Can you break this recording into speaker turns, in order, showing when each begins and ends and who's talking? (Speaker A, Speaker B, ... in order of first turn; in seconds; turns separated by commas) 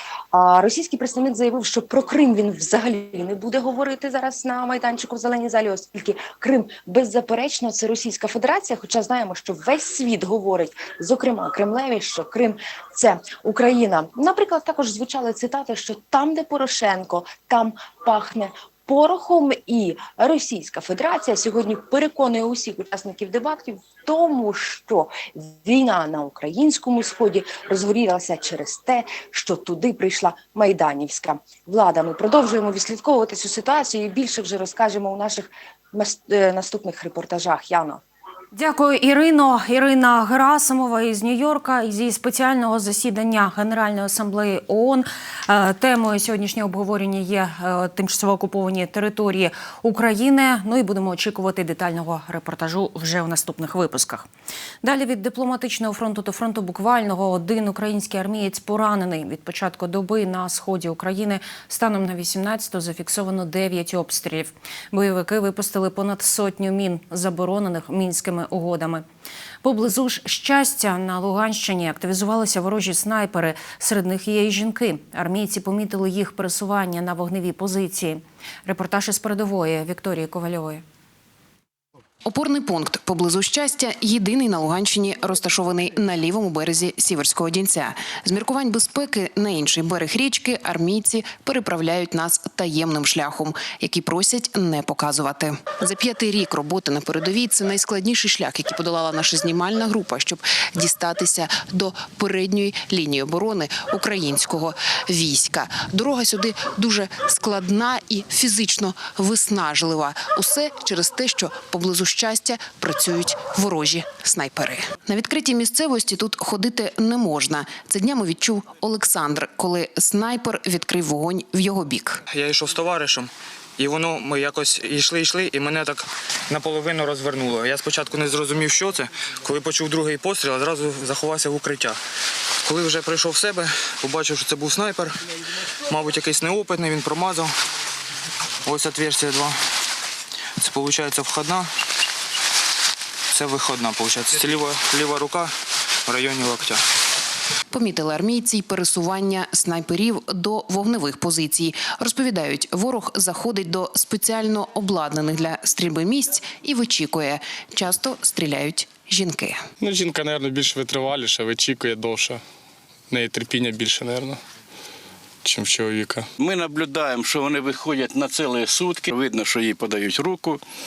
Speaker A: 0.3-38.0, Speaker B: 38.5-54.3, Speaker B: 54.8-69.0, Speaker B: 69.6-80.8, Speaker C: 82.2-122.2, Speaker D: 122.3-132.0, Speaker D: 132.7-135.2, Speaker D: 135.9-137.5, Speaker D: 138.7-139.6, Speaker D: 140.6-141.7, Speaker D: 143.3-145.5, Speaker D: 146.1-146.8, Speaker C: 147.7-159.6, Speaker E: 160.1-162.4, Speaker E: 163.1-164.4, Speaker E: 165.4-166.2, Speaker F: 166.4-170.6